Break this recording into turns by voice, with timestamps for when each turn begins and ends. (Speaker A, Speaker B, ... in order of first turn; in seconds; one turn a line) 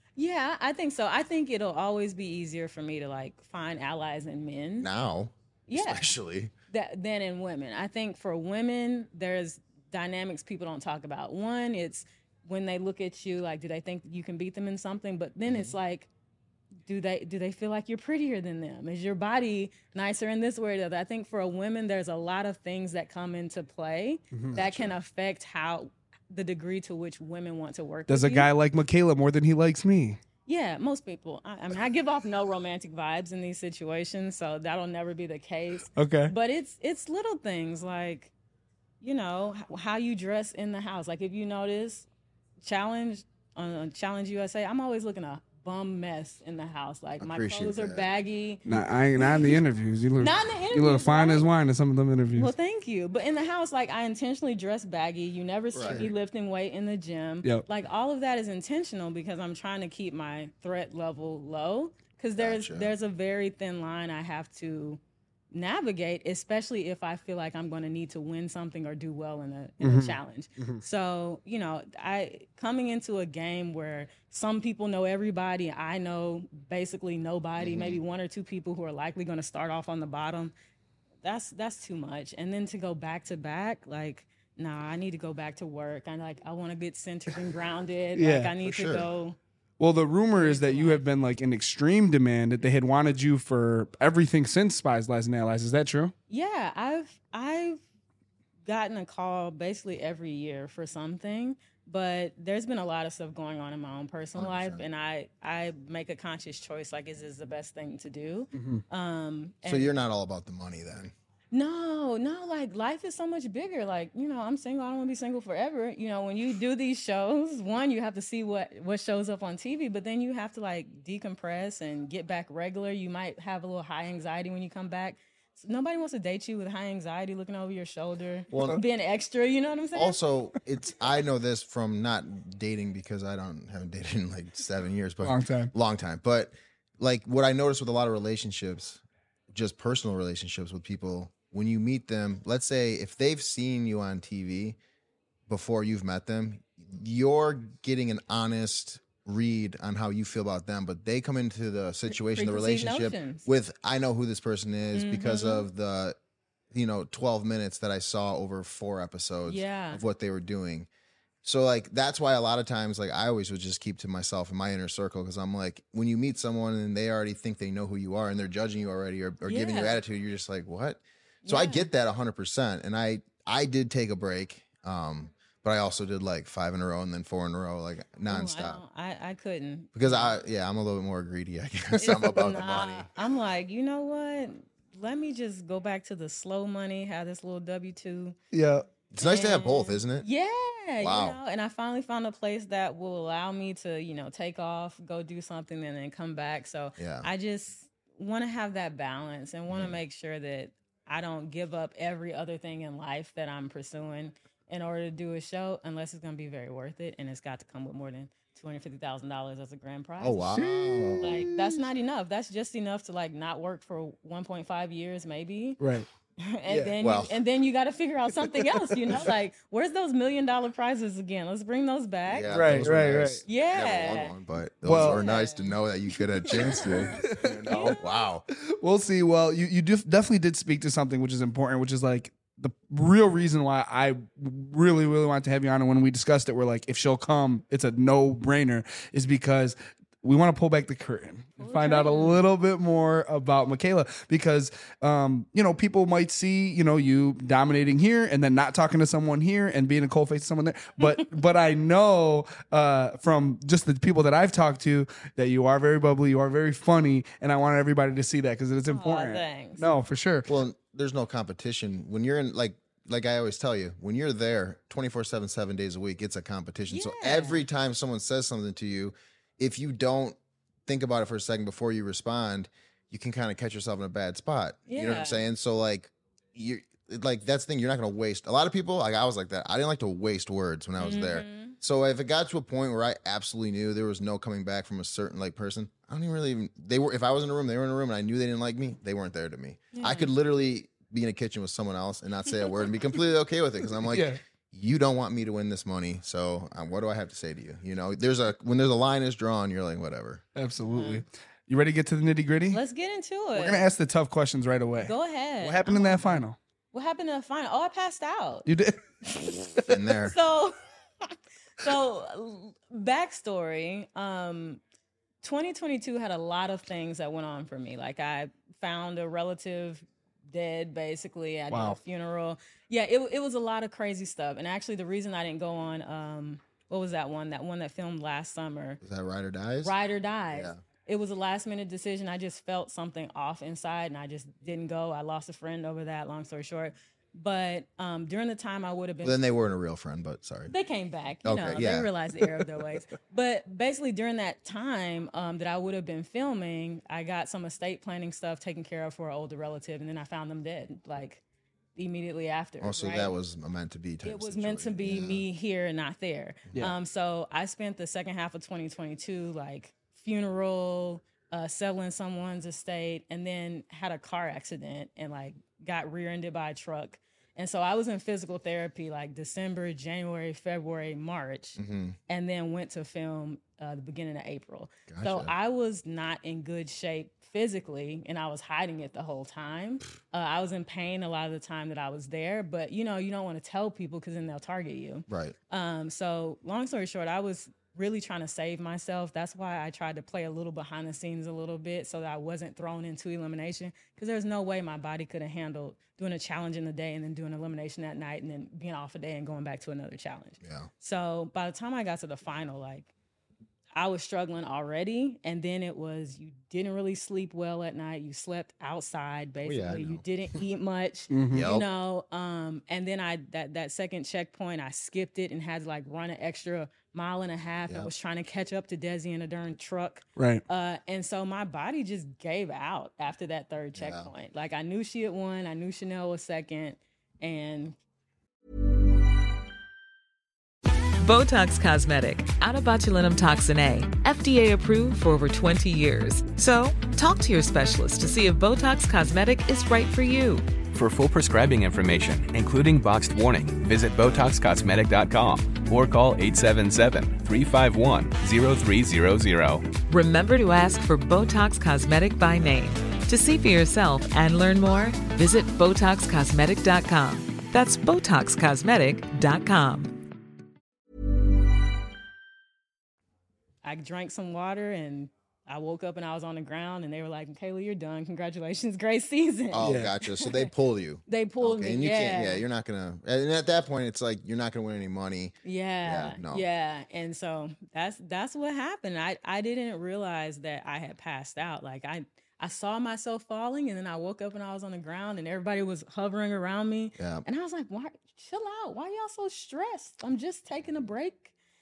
Speaker A: 0.2-4.9
Speaker B: 4.8-6.5
Speaker A: 5.7-6.2
Speaker A: 6.7-16.1
Speaker B: 15.5-15.8
Speaker A: 16.9-28.5
Speaker B: 24.6-25.0
Speaker C: 28.1-30.2
Speaker A: 30.4-38.3
Speaker C: 35.9-36.3
Speaker A: 39.0-42.1
Speaker A: 42.6-48.6
Speaker B: 47.2-48.1
Speaker C: 48.7-52.5
Speaker A: 49.2-49.6
Speaker A: 50.2-51.5
Speaker A: 52.4-65.0
Speaker B: 55.7-56.1
Speaker B: 62.4-62.9
Speaker A: 65.5-80.5
Speaker C: 69.8-70.8
Speaker B: 77.6-78.0
Speaker A: 81.2-89.4
Speaker C: 88.2-88.6
Speaker B: 88.6-89.1
Speaker C: 89.8-96.1
Speaker A: 90.3-91.0
Speaker A: 96.3-97.8
Speaker A: 98.7-109.9
Speaker B: 104.4-104.8
Speaker C: 108.5-108.8
Speaker B: 109.6-111.1
Speaker A: 111.5-130.2
Speaker B: 128.5-128.8
Speaker B: 129.9-139.0
Speaker C: 135.2-135.7
Speaker B: 139.5-144.8
Speaker B: 145.5-156.2
Speaker A: 152.2-153.5
Speaker A: 154.9-155.7
Speaker B: 156.7-160.9
Speaker A: 159.4-160.0
Speaker B: 161.4-178.8
Speaker A: 169.4-170.0
Speaker A: 171.4-171.9
Speaker A: 178.3-180.4
Speaker B: 179.9-183.1
Speaker A: 182.0-188.4
Speaker C: 188.5-188.9
Speaker B: 189.1-190.3
Speaker A: 189.2-210.5
Speaker B: 191.0-191.4
Speaker B: 197.0-197.3
Speaker B: 199.7-200.0
Speaker B: 210.2-211.4
Speaker C: 210.6-211.8
Speaker A: 211.2-215.8
Speaker C: 215.8-216.1
Speaker A: 216.4-222.7
Speaker C: 216.7-217.0
Speaker B: 217.0-217.4
Speaker C: 218.6-219.0
Speaker B: 222.3-228.4
Speaker C: 222.5-223.4
Speaker A: 223.4-224.4
Speaker C: 224.8-225.2
Speaker A: 224.9-225.8
Speaker A: 226.5-227.1
Speaker C: 226.6-227.9
Speaker A: 227.7-228.0
Speaker C: 228.5-260.5
Speaker A: 241.6-242.5
Speaker A: 258.9-259.9
Speaker B: 260.5-300.4
Speaker A: 266.9-267.7
Speaker A: 274.9-275.5
Speaker A: 281.0-281.8
Speaker A: 289.9-290.4
Speaker C: 294.1-294.4
Speaker C: 300.6-302.8
Speaker A: 300.9-301.2
Speaker A: 302.7-303.9
Speaker C: 303.6-306.6
Speaker A: 305.0-308.7
Speaker C: 308.6-309.9
Speaker B: 309.9-310.4
Speaker A: 310.2-314.8
Speaker A: 315.4-329.0
Speaker C: 321.7-322.0
Speaker B: 329.0-330.0
Speaker A: 329.8-339.5
Speaker B: 330.5-330.8
Speaker B: 339.2-340.7
Speaker A: 340.7-351.4
Speaker B: 341.4-342.1
Speaker A: 351.9-353.4
Speaker B: 352.8-355.5
Speaker A: 354.2-403.1
Speaker B: 371.8-372.2
Speaker B: 375.1-375.5
Speaker B: 385.3-385.6
Speaker B: 400.6-400.9
Speaker A: 403.9-428.0
Speaker B: 409.6-410.2
Speaker C: 411.3-411.8
Speaker B: 411.5-411.9
Speaker C: 420.4-420.6
Speaker B: 424.0-424.3
Speaker D: 431.2-440.7
Speaker E: 440.9-449.9
Speaker D: 450.1-460.1
Speaker A: 463.8-470.7
Speaker B: 469.7-476.6
Speaker C: 469.8-470.1
Speaker A: 471.3-472.6
Speaker A: 475.6-491.5
Speaker B: 487.2-487.4